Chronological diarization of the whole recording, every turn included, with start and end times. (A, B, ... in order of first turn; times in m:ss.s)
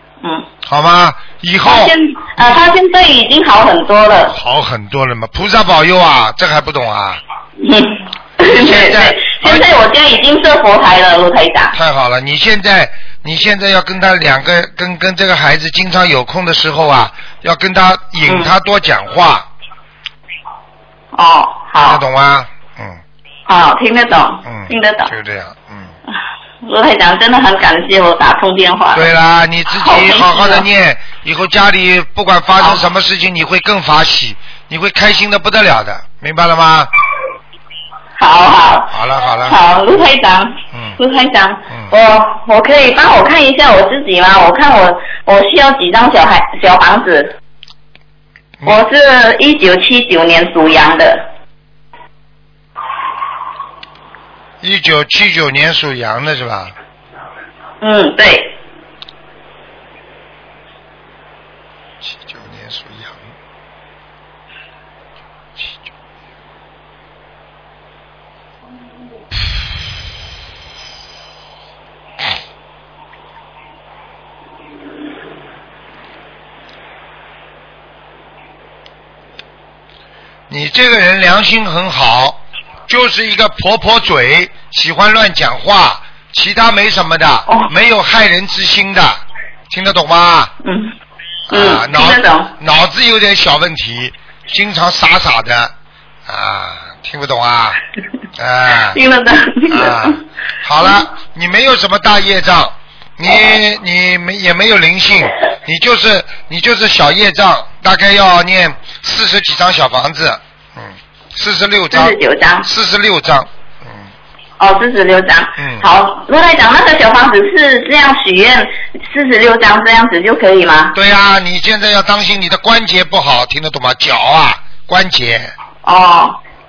0:00.2-0:00.5 A
0:00.6-0:01.9 B
0:01.6-0:04.4 A
0:04.3-0:07.2 B
0:07.6-0:11.8 A
0:08.4-0:09.7 B
0:11.7-0:19.5 B
0:18.2-0:18.5 A
0:21.1-0:22.0 A
0:21.8-0:23.0 B
0:23.5-0:25.1 A
0:24.5-0:25.9 B
0:26.6-0:29.1 A
0:28.9-0:36.9 B
0:29.7-0:30.7 A
0:32.6-0:32.9 A
0:38.2-0:47.3 A
0:38.9-0:39.6 B
0:48.6-0:51.2 A
0:54.6-0:56.7 B
0:57.8-0:58.6 A
1:02.0-1:03.2 B
1:20.5-1:30.5 B
1:30.6-1:30.9 A
1:31.5-1:35.7 B
1:31.5-1:32.5 A
1:36.2-1:37.8 B
1:38.4-1:39.0 B
1:38.9-1:40.2 A
1:39.7-1:54.1 B
1:51.9-1:52.7 A
1:54.6-2:01.0 A
1:55.6-1:55.9 B
2:00.9-2:05.5 B
2:05.8-2:06.4 A